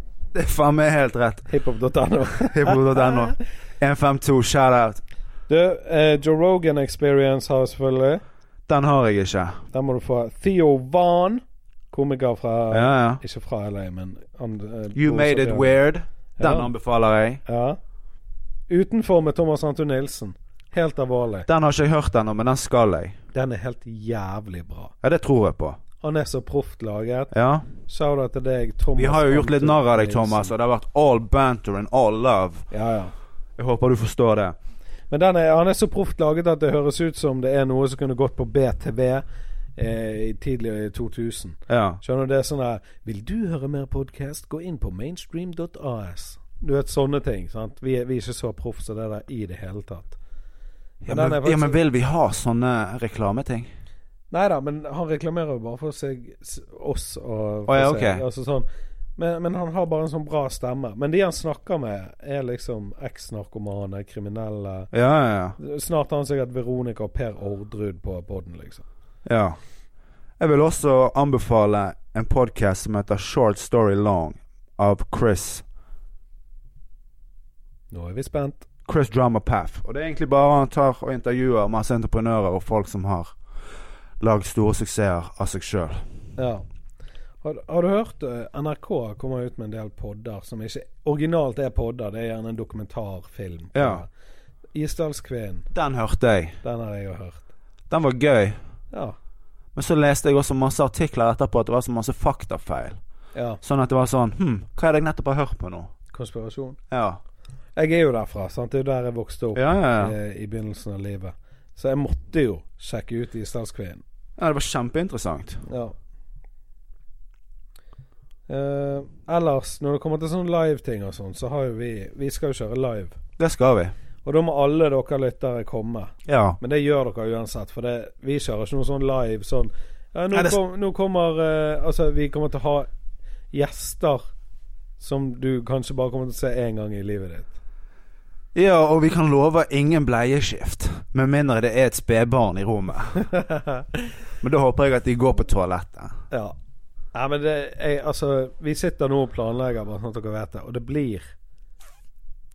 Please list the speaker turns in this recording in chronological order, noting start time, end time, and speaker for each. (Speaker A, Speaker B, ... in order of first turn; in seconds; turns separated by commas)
Speaker A: 0.3-1.5, Speaker B: 1.5-3.4, Speaker A: 2.5-5.0, Speaker B: 5.5-8.2, Speaker A: 8.7-9.6, Speaker B: 9.7-15.8, Speaker A: 12.7-13.2, Speaker A: 14.9-17.4, Speaker B: 16.4-16.7, Speaker B: 17.4-17.8, Speaker B: 18.7-21.5, Speaker A: 21.5-23.2, Speaker B: 23.3-24.9, Speaker A: 25.0-25.8, Speaker B: 26.0-30.5, Speaker A: 27.3-27.7, Speaker A: 29.0-32.7, Speaker B: 32.7-33.1, Speaker A: 33.6-34.6, Speaker B: 35.1-39.2, Speaker B: 39.8-50.2, Speaker A: 41.7-42.0, Speaker A: 51.0-53.7, Speaker B: 51.1-51.8, Speaker B: 54.3-64.9, Speaker A: 57.7-58.2, Speaker A: 64.9-65.6, Speaker B: 65.6-68.8, Speaker A: 69.2-69.6, Speaker A: 70.4-75.6, Speaker B: 77.9-78.7, Speaker A: 78.8-83.3, Speaker A: 84.2-86.0, Speaker B: 86.4-86.7, Speaker B: 87.4-94.1, Speaker A: 93.7-94.0, Speaker B: 94.7-95.7, Speaker A: 95.7-96.6, Speaker B: 96.6-97.5, Speaker A: 97.9-98.6, Speaker A: 99.8-103.0, Speaker B: 103.3-103.6, Speaker A: 103.6-105.9, Speaker B: 106.1-106.8, Speaker A: 106.9-107.2, Speaker B: 107.8-114.0, Speaker A: 109.5-110.1, Speaker A: 114.4-115.6, Speaker B: 115.7-116.0, Speaker B: 118.5-123.2, Speaker A: 123.4-123.9, Speaker B: 124.2-132.9, Speaker A: 126.2-126.6, Speaker A: 130.3-130.6, Speaker B: 133.5-134.3, Speaker B: 135.0-137.6, Speaker A: 138.6-143.2, Speaker B: 143.3-143.9, Speaker A: 144.4-146.2, Speaker B: 147.1-151.3